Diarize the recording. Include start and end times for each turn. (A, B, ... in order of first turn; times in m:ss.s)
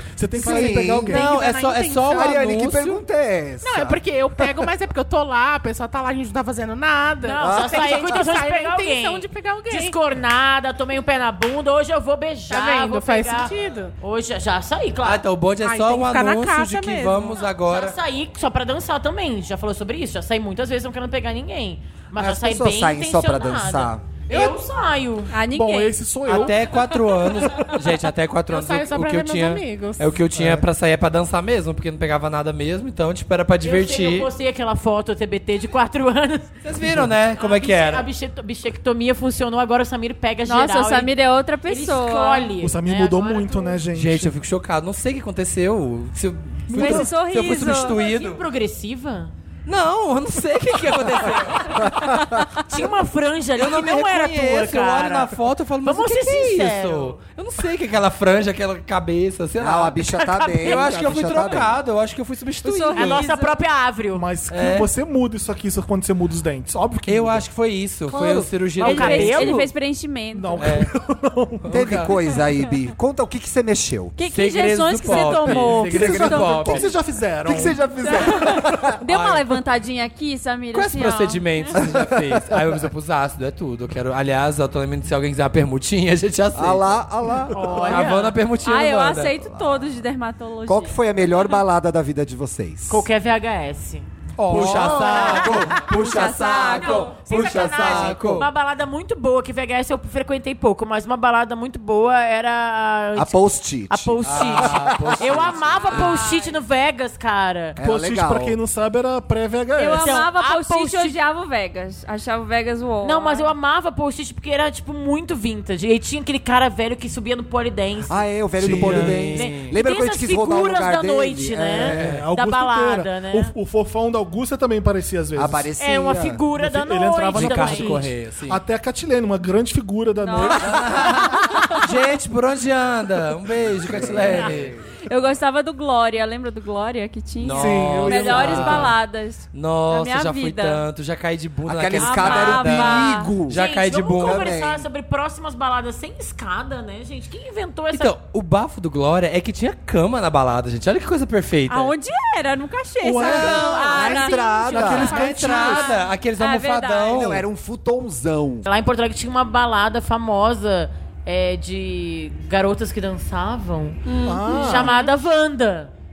0:00.2-0:01.3 A
0:00.3-0:01.2 B
0:00.5-0:02.4 C
0:01.1-0:03.0 D
0:02.1-0:04.5 B
0:03.6-0:10.0 C
0:07.2-0:15.2 E
0:07.4-0:08.1 B
0:12.5-0:13.9 C
0:15.0-0:18.0 D
0:15.6-0:17.3 C
0:17.6-0:25.3 E
0:22.2-0:24.0 B
0:25.3-0:26.4 F
0:25.4-0:27.7 A
0:26.2-0:34.3 D
0:28.5-0:30.1 C
0:30.3-0:30.6 A
0:33.6-0:36.5 E
0:36.6-0:38.1 D
0:37.3-0:43.8 E
0:40.4-0:42.5 F
0:42.6-0:44.3 A
0:43.9-0:48.4 D
0:46.7-0:47.2 A
0:46.7-0:48.0 F
0:47.7-0:49.3 E
0:49.6-0:51.9 D
0:51.9-0:52.2 B
0:52.6-0:57.2 E
0:53.6-1:00.1 D
0:59.6-1:01.8 B
1:00.2-1:00.8 E
1:00.6-1:03.2 D
1:02.6-1:03.6 F
1:02.9-1:04.2 E
1:04.1-1:07.4 A
1:04.5-1:04.9 D
1:07.0-1:09.6 D
1:08.1-1:08.5 A
1:08.8-1:09.7 E
1:08.8-1:10.7 F
1:10.3-1:12.0 A
1:10.6-1:10.9 D
1:11.6-1:12.1 D
1:11.7-1:14.1 B
1:12.2-1:12.7 F
1:14.2-1:16.8 F
1:14.2-1:16.8 D
1:15.3-1:18.3 A
1:15.8-1:16.9 B
1:17.4-1:19.0 B
1:18.0-1:21.8 F
1:19.0-1:19.6 D
1:20.7-1:27.0 D
1:21.7-1:22.8 B
1:26.5-1:27.8 B
1:27.5-1:28.4 E
1:27.5-1:28.0 A
1:27.9-1:29.4 D
1:28.6-1:31.6 F
1:29.4-1:30.0 B
1:30.6-1:33.0 B
1:32.9-1:34.0 E
1:34.4-1:35.6 A
1:34.5-1:35.9 D
1:34.5-1:38.4 B
1:35.3-1:37.3 F
1:35.3-1:35.6 E
1:36.5-1:47.8 E
1:37.2-1:38.5 D
1:43.1-1:45.4 B
1:44.2-1:46.2 D
1:45.8-1:46.6 F
1:47.8-1:48.6 B
1:47.8-1:50.2 A
1:49.8-1:53.5 F
1:50.0-1:51.2 E
1:53.0-2:03.5 E
1:58.1-2:02.2 B
1:58.6-1:59.7 D
1:58.6-1:59.2 A
2:01.9-2:05.7 A
2:02.0-2:02.2 D
2:05.3-2:06.4 B
2:05.8-2:08.0 E
2:06.5-2:11.5 A
2:07.3-2:08.6 D
2:10.2-2:11.9 F
2:10.6-2:14.7 D
2:13.7-2:14.8 B
2:15.1-2:20.8 F
2:17.4-2:18.9 D
2:17.5-2:19.0 A
2:19.5-2:24.5 D
2:21.6-2:24.8 B
2:22.0-2:23.4 F
2:23.5-2:28.1 E
2:27.9-2:31.9 D
2:31.7-2:37.2 F
2:33.0-2:36.0 A
2:33.3-2:35.1 B
2:33.5-2:34.2 E
2:33.9-2:35.9 C
2:35.0-2:37.4 D
2:37.1-2:38.6 B
2:38.6-2:45.9 E
2:44.0-2:45.0 F
2:44.2-2:45.0 A